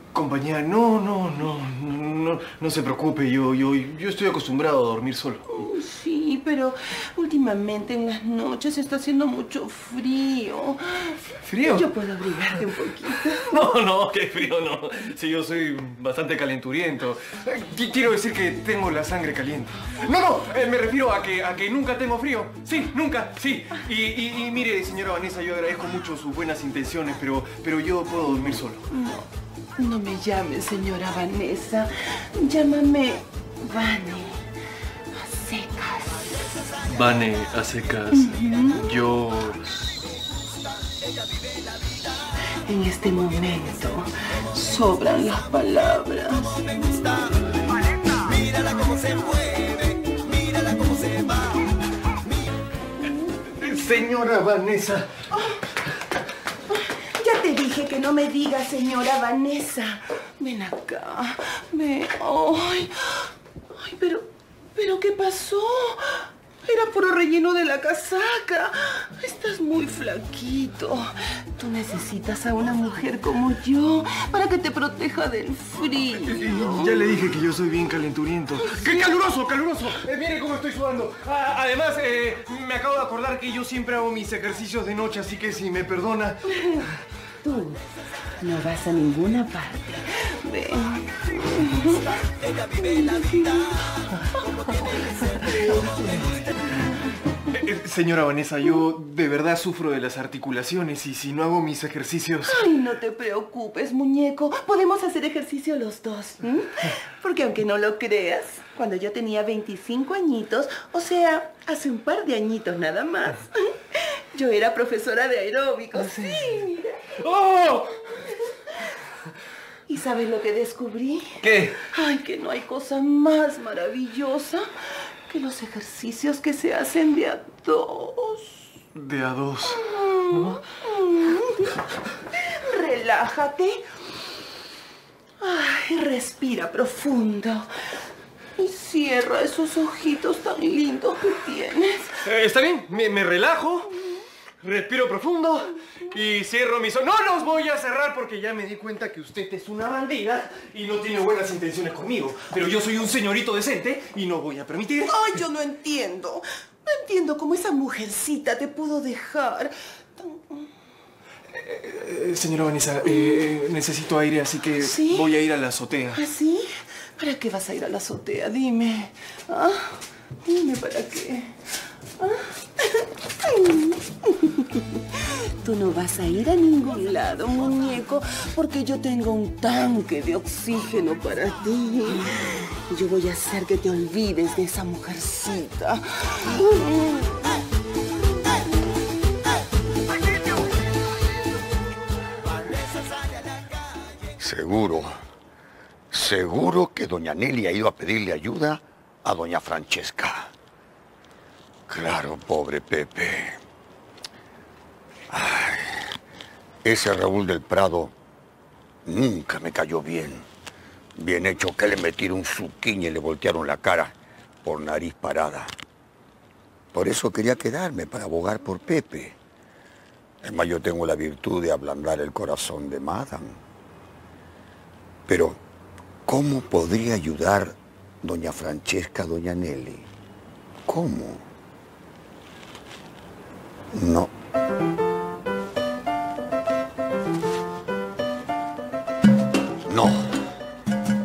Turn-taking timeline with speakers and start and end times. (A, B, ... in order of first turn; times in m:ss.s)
0:00.1-0:05.5 A
0:05.5-0:13.5 B
0:11.4-0:28.8 A
0:28.9-0:34.4 B
0:35.1-0:36.5 B
0:36.8-0:39.6 A
0:38.1-0:38.9 B
0:42.6-0:47.1 B
0:48.2-0:51.5 B
0:53.5-0:55.1 A
0:55.3-0:55.6 B
0:56.7-1:17.1 B
1:16.1-1:26.5 A
1:18.6-1:19.0 B
1:26.5-1:26.8 B
1:27.4-1:27.8 B
1:28.4-1:32.1 B
1:32.7-1:33.8 B
1:35.3-1:36.8 B
1:37.5-1:42.6 A
1:42.4-1:57.2 B
1:57.2-1:58.1 A
1:58.2-1:58.9 B
1:59.9-2:04.6 B
2:01.4-2:01.8 A
2:05.3-2:08.6 B
2:08.9-2:10.6 A
2:09.6-2:13.8 B
2:15.4-2:17.7 B
2:18.6-2:22.2 B
2:22.2-2:24.0 A
2:24.6-2:35.3 A
2:35.0-2:40.7 B
2:41.5-2:46.2 A
2:43.0-2:43.5 B
2:44.8-2:45.3 B
2:46.1-2:51.6 B
2:52.2-3:07.6 B
3:14.4-3:15.1 C
3:16.1-3:20.5 C
3:21.9-3:23.6 C
3:25.3-3:26.1 C
3:26.8-3:28.1 C
3:29.0-3:30.5 C
3:31.1-3:35.7 C
3:36.9-3:39.4 C
3:40.4-3:43.6 C
3:45.3-3:45.6 C
3:46.2-3:50.1 C
3:50.8-3:51.4 C
3:53.9-3:54.3 C
3:59.8-4:00.3 C